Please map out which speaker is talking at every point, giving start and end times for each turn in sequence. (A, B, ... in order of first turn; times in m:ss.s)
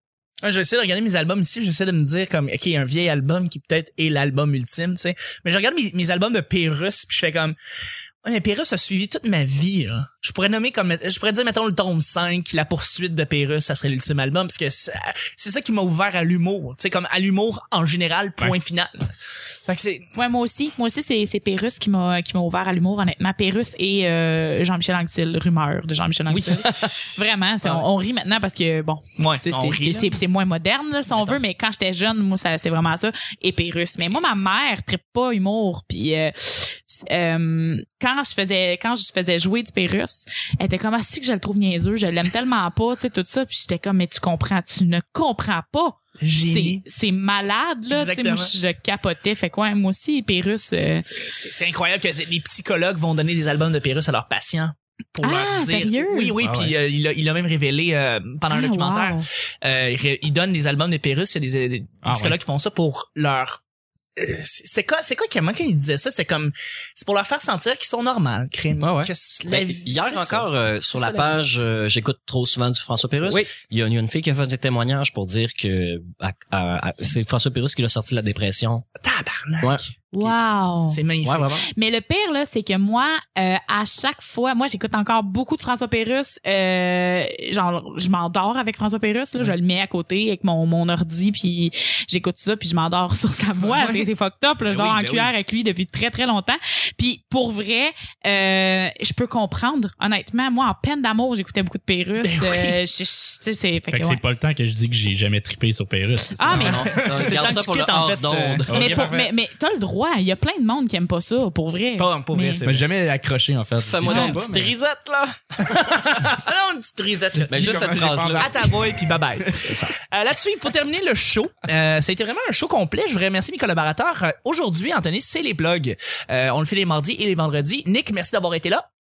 0:00.4-0:07.6 A
0:08.2-0:19.1 A
0:19.7-0:20.1 A
0:20.1-0:46.0 B
0:26.3-0:27.0 A
0:26.7-0:26.9 C
0:29.2-0:30.2 A
0:46.2-0:46.8 A
0:46.5-0:51.0 B
0:47.9-0:48.5 A
0:51.0-1:03.6 A
0:55.2-0:56.3 B
0:56.4-0:56.8 D
0:58.5-0:59.2 B
1:02.0-1:02.4 D
1:04.2-1:11.3 A
1:08.8-1:18.8 C
1:19.0-1:19.9 A
1:19.6-1:20.3 C
1:20.1-1:21.0 B
1:20.9-1:21.6 A
1:21.2-1:21.6 C
1:21.6-1:44.2 B
1:33.6-1:34.0 A
1:34.6-1:35.3 C
1:42.2-1:42.8 A
1:43.9-1:46.9 D
1:46.4-1:47.0 B
1:46.5-1:48.9 C
1:46.6-1:48.7 A
1:48.7-1:49.3 D
1:48.7-1:52.6 B
1:52.0-1:52.8 A
1:52.6-1:54.7 D
1:53.8-1:56.0 C
1:54.0-1:54.4 B
1:55.6-2:08.8 A
1:57.5-1:58.7 C
1:57.5-1:58.9 D
1:59.6-1:59.9 C